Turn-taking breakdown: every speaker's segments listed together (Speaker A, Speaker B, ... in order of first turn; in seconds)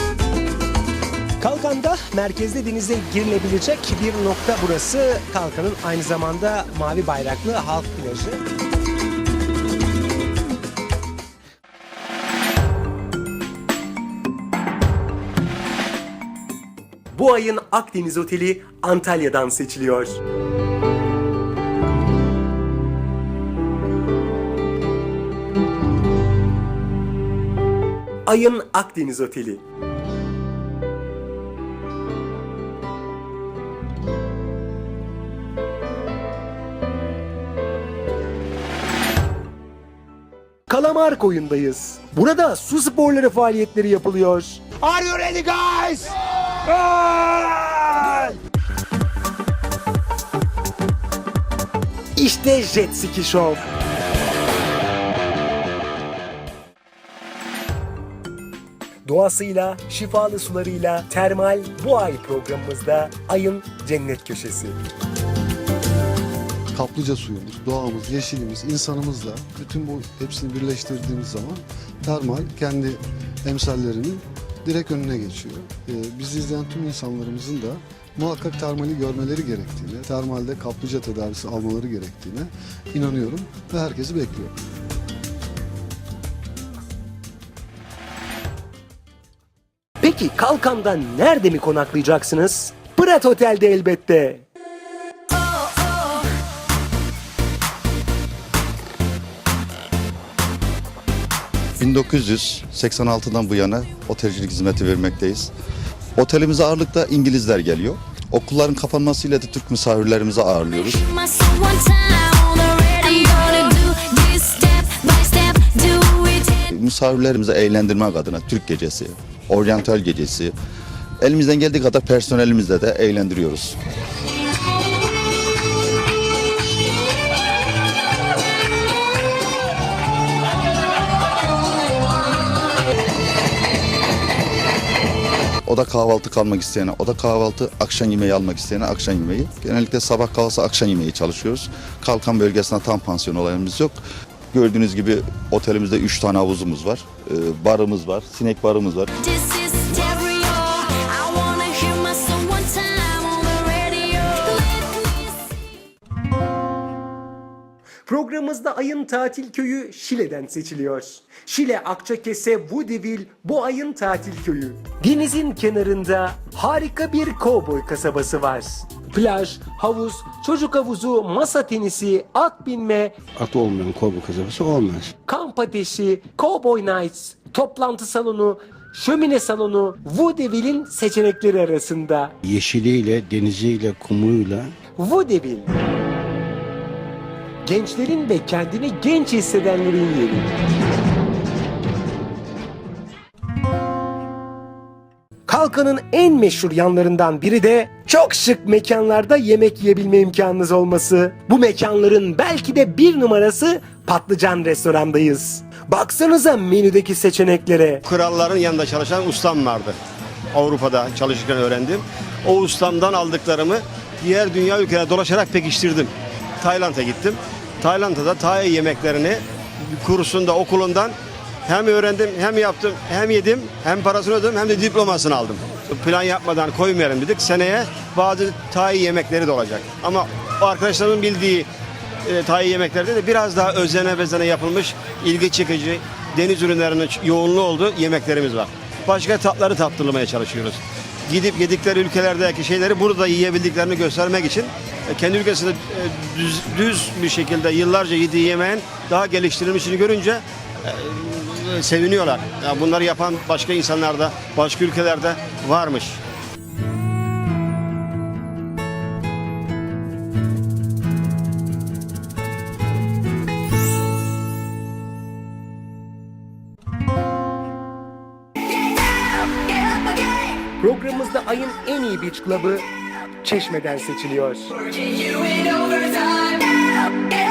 Speaker A: 1.4-8.4, 17.1-20.2, 28.2-29.6, 40.7-48.4, 52.1-53.7, 59.0-64.8, 90.0-94.5, 158.1-173.2, 175.2-182.3, 184.9-185.7, 187.6-190.5, 195.5-208.0, 270.8-272.9, 273.4-276.3
Speaker B: 66.7-84.5
Speaker C: 101.8-105.5, 106.2-111.0, 116.7-120.5, 121.2-123.8, 135.6-144.0, 144.5-149.1
Speaker D: 111.0-116.6, 149.2-155.6
Speaker E: 173.3-175.1, 182.4-184.7
Speaker F: 208.0-210.0, 210.5-231.7, 232.2-256.2